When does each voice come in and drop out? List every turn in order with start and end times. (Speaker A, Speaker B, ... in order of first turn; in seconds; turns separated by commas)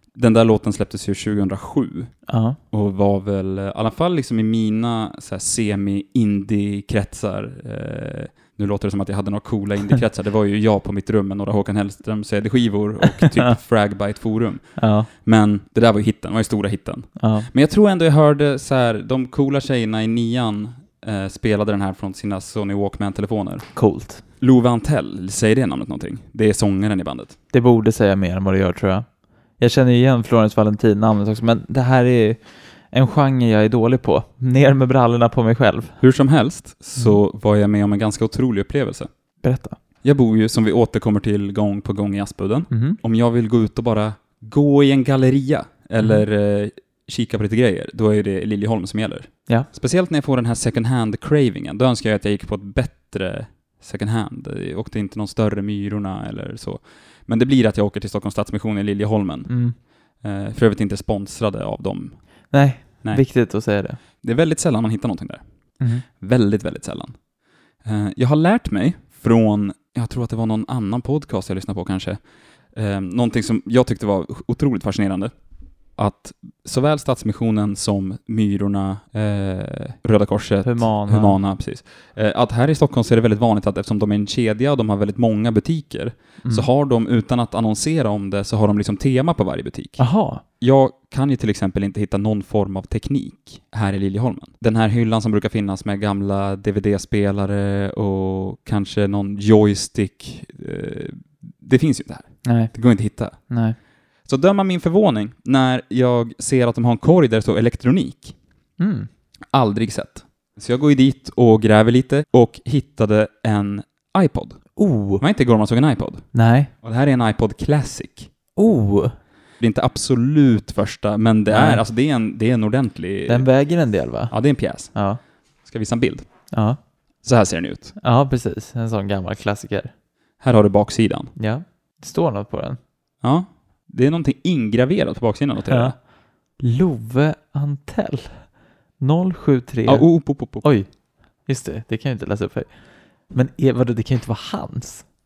Speaker A: 0.1-2.1, Speaker B: 2.3-2.6, Speaker A: 2.7-23.7, Speaker B: 13.2-13.6, Speaker B: 14.8-15.1, Speaker B: 17.2-17.5, Speaker B: 23.7-24.2, Speaker A: 24.4-27.4, Speaker B: 27.5-29.1, Speaker B: 29.6-36.0, Speaker A: 36.0-39.1, Speaker B: 39.4-39.8, Speaker A: 40.0-62.2, Speaker B: 42.7-43.0, Speaker B: 46.0-46.2, Speaker B: 59.5-59.7, Speaker B: 62.5-64.0, Speaker A: 64.2-65.4, Speaker A: 66.0-67.2, Speaker A: 67.8-72.2, Speaker A: 72.7-75.3, Speaker A: 76.0-103.4, Speaker B: 80.6-81.4, Speaker B: 86.4-86.7, Speaker B: 90.0-90.4, Speaker B: 102.4-102.7, Speaker B: 103.5-103.8, Speaker A: 104.2-108.3, Speaker B: 108.8-109.1, Speaker A: 109.5-116.2, Speaker B: 114.8-115.2, Speaker B: 116.3-116.7, Speaker A: 116.8-118.3, Speaker B: 118.6-119.1, Speaker A: 119.6-123.5, Speaker B: 121.5-121.8, Speaker B: 123.3-124.3, Speaker A: 124.3-124.9, Speaker B: 124.9-125.2, Speaker A: 125.6-126.3, Speaker B: 126.5-126.8, Speaker A: 127.2-127.9, Speaker B: 128.0-129.9, Speaker A: 130.4-131.3, Speaker B: 131.4-132.8, Speaker A: 133.2-135.9, Speaker B: 135.7-135.9, Speaker B: 136.6-138.5, Speaker B: 139.0-140.9, Speaker A: 139.8-140.7, Speaker B: 141.4-142.7, Speaker B: 143.3-145.0